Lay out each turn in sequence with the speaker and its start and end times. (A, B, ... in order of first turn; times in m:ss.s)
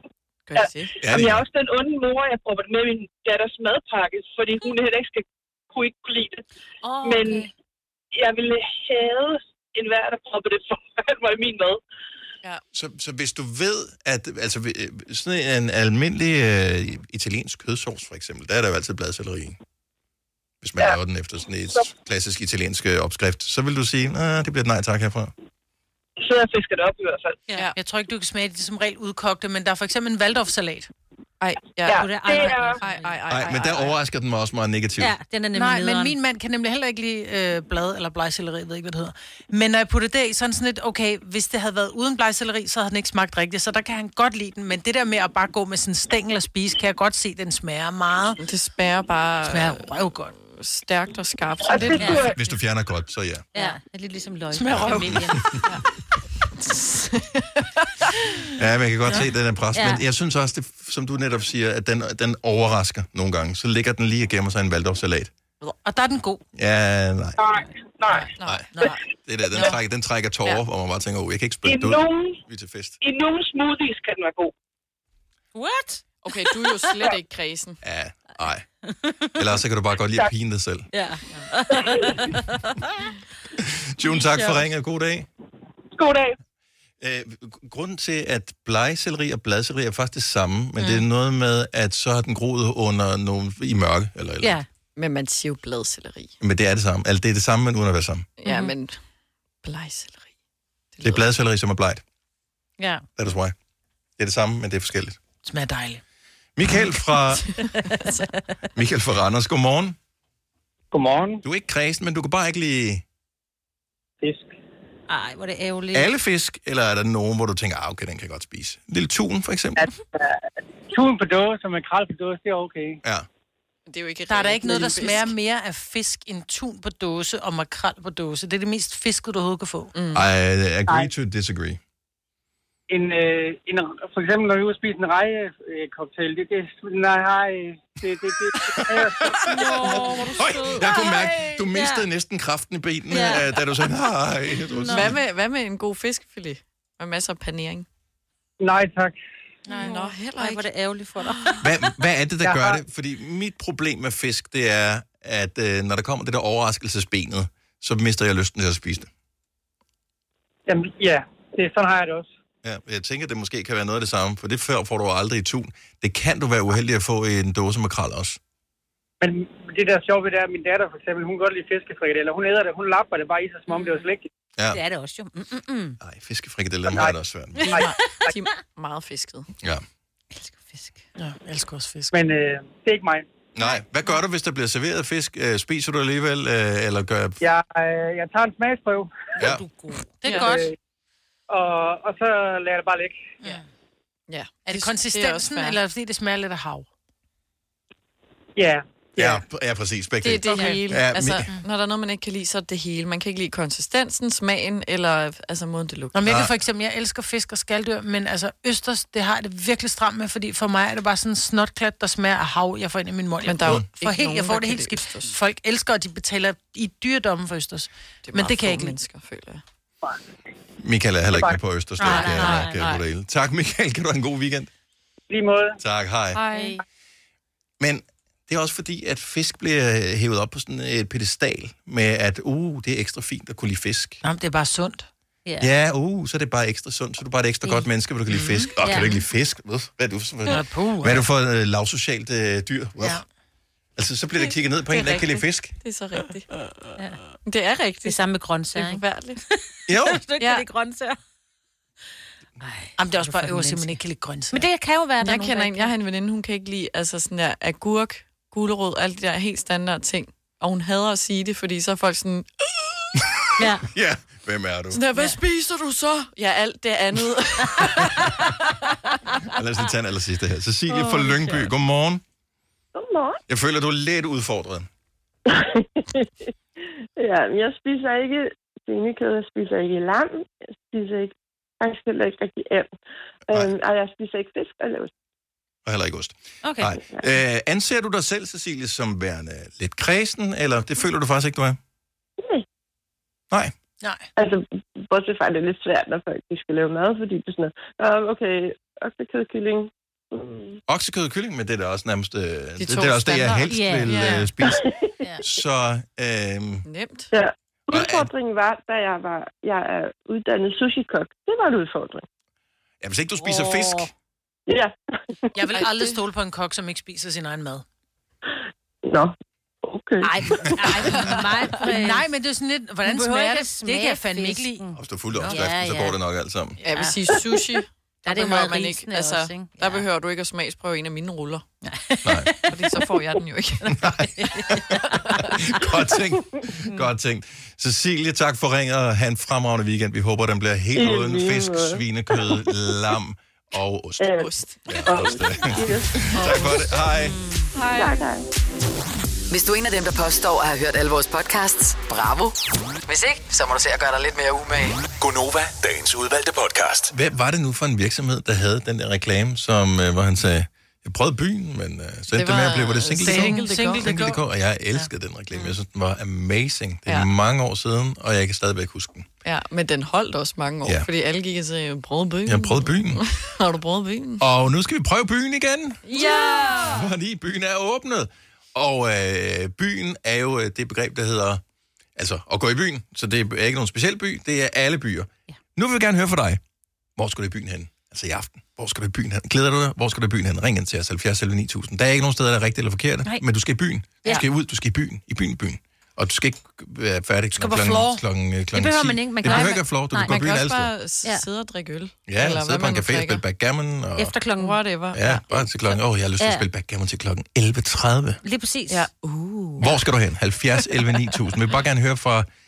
0:00.5-0:01.0 A
0:00.6-0:06.4 B
0:01.0-0:01.4 C
0:06.8-0:07.5 D
0:07.0-0:07.5 B
0:08.1-0:11.8 B
0:12.7-0:19.6 C
0:20.6-0:25.3 C
0:26.2-0:27.4 B
0:27.8-0:30.9 E
0:31.4-0:34.0 A
0:31.9-0:32.9 D
0:31.9-0:32.7 B
0:33.3-0:35.1 C
0:35.0-0:36.2 D
0:35.5-0:48.4 E
0:48.4-0:52.3 A
0:49.5-0:50.3 E
0:52.0-0:52.3 D
0:52.0-0:53.5 C
0:53.5-0:55.6 D
0:54.5-0:55.3 E
0:54.8-0:55.4 C
0:56.6-0:57.9 A
0:58.6-1:05.3 C
0:59.7-1:00.0 D
1:05.8-1:06.4 E
1:06.6-1:07.4 C
1:07.5-1:08.1 B
1:08.4-1:09.0 A
1:09.2-1:13.0 C
1:11.6-1:12.4 B
1:13.0-1:14.5 B
1:15.6-1:16.0 D
1:16.2-1:17.8 A
1:17.8-1:18.6 C
1:18.9-1:19.3 D
1:19.4-1:20.9 C
1:20.9-1:23.1 D
1:23.6-1:25.3 C
1:24.1-1:24.6 D
1:26.0-1:26.4 B
1:27.0-1:34.6 C
1:34.4-1:34.7 D
1:35.0-1:36.4 A
1:36.4-1:38.3 C
1:38.4-1:39.0 A
1:39.6-1:40.3 A
1:41.0-1:41.2 A
1:41.0-1:42.0 C
1:42.8-1:43.0 D
1:43.2-1:43.6 C
1:44.2-1:45.2 C
1:45.4-1:46.0 E
1:46.6-1:47.5 C
1:47.9-1:48.3 A
1:48.8-1:50.0 C
1:50.9-1:51.4 F
1:51.4-1:53.0 C
1:54.2-1:54.5 F
1:55.1-1:56.1 D
1:55.9-1:59.9 C
1:59.8-2:00.4 F
2:00.9-2:03.0 F
2:03.9-2:05.3 A
2:04.3-2:09.9 E
2:09.9-2:10.2 A
2:10.2-2:11.8 C
2:12.9-2:20.0 F
2:18.7-2:25.2 C
2:19.4-2:22.0 D
2:23.1-2:23.5 D
2:24.7-2:25.1 D
2:24.9-2:27.9 A
2:28.6-2:29.2 F
2:29.7-2:31.6 D
2:29.7-2:30.7 A
2:31.2-2:31.6 A
2:31.6-2:39.1 C
2:32.4-2:32.8 F
2:40.7-2:42.3 F
2:42.6-2:48.4 C
2:49.2-2:54.3 F
2:53.7-2:54.0 D
2:54.7-2:56.0 D
2:56.0-2:57.7 C
2:56.9-2:57.2 F
2:57.6-2:59.5 A
3:00.4-3:01.0 D
3:01.2-3:02.1 E
3:02.1-3:03.2 F
3:03.6-3:07.4 C
3:07.4-3:09.3 F
3:09.4-3:09.6 C
3:09.6-3:10.7 E
3:10.2-3:10.5 A
3:10.3-3:10.7 F
3:11.5-3:13.4 F
3:14.3-3:15.8 A
3:14.7-3:16.9 E
3:18.6-3:19.4 F
3:19.2-3:21.5 C
3:20.2-3:26.2 A
3:26.1-3:39.0 E
3:26.3-3:26.5 C
3:33.4-3:35.4 A
3:38.2-3:39.6 A
3:40.8-3:44.7 C
3:41.3-3:41.6 F
3:42.0-3:42.8 D
3:42.5-3:43.0 A
3:45.3-3:45.8 F
3:45.8-3:46.4 C
3:46.5-3:46.8 D
3:47.8-3:54.2 C
3:54.2-3:55.1 E
3:55.6-4:03.2 C
3:58.8-3:59.2 D
4:00.5-4:01.2 E
4:04.0-4:05.7 C
4:05.8-4:06.5 A
4:07.5-4:08.2 A
4:08.0-4:09.0 D
4:08.7-4:09.4 A
4:09.9-4:10.2 C
4:10.0-4:11.2 D
4:10.4-4:10.7 A
4:12.6-4:14.0 D
4:13.0-4:14.7 E
4:14.5-4:15.9 D
4:15.2-4:22.5 A
4:23.6-4:23.8 D
4:23.8-4:25.0 C
4:24.9-4:28.5 A
4:29.5-4:32.2 C
4:30.9-4:31.7 D
4:33.0-4:33.4 G
4:33.5-4:34.9 C
4:35.5-4:36.3 G
4:37.2-4:42.9 G
4:43.5-4:45.1 G
4:45.9-4:51.8 C
4:46.6-4:47.0 D
4:52.4-4:52.6 G
4:54.4-5:00.8 G
5:00.9-5:04.8 C
5:02.8-5:04.5 A
5:03.7-5:04.5 D
5:04.6-5:05.1 G
5:05.4-5:06.8 C
5:06.8-5:07.3 A
5:07.3-5:12.2 G
5:07.9-5:08.3 C
5:13.0-5:14.1 C
5:13.4-5:14.1 D
5:14.7-5:15.5 G
5:15.6-5:17.8 E
5:15.7-5:16.2 A
5:19.0-5:21.2 G
5:20.2-5:22.3 D
5:21.8-5:24.8 E
5:23.0-5:26.2 D
5:25.0-5:26.8 C
5:26.8-5:31.6 A
5:26.8-5:27.2 D
5:28.2-5:30.0 D
5:31.8-5:32.8 D
5:32.2-5:32.5 C
5:32.7-5:33.9 A
5:34.0-5:34.9 C
5:34.4-5:35.5 D
5:35.4-5:44.3 C
5:41.0-5:42.6 G
5:44.2-5:44.5 G
5:44.4-5:45.2 A
5:44.9-5:47.4 C
5:45.0-5:46.7 G
5:46.4-5:46.9 A
5:47.2-5:47.7 D
5:47.8-5:48.1 A
5:47.9-5:48.4 G
5:49.5-5:52.6 H
5:53.1-5:55.1 H
5:55.2-5:57.1 I
5:57.1-6:09.3 C
6:02.3-6:04.0 A
6:03.2-6:04.4 E
6:09.4-6:14.4 A
6:12.5-6:13.2 C
6:14.4-6:21.6 C
6:16.0-6:17.0 A
6:16.1-6:16.9 D
6:22.2-6:26.6 C
6:27.2-6:40.9 C
6:37.6-6:38.2 E
6:38.7-6:40.4 D
6:39.5-6:43.4 A
6:42.3-6:44.3 C
6:44.2-6:44.8 D
6:44.6-6:45.6 A
6:45.1-6:48.4 C
6:46.4-6:46.6 D
6:48.4-6:49.1 D
6:48.9-6:50.0 A
6:49.8-6:52.5 C
6:50.8-6:51.2 A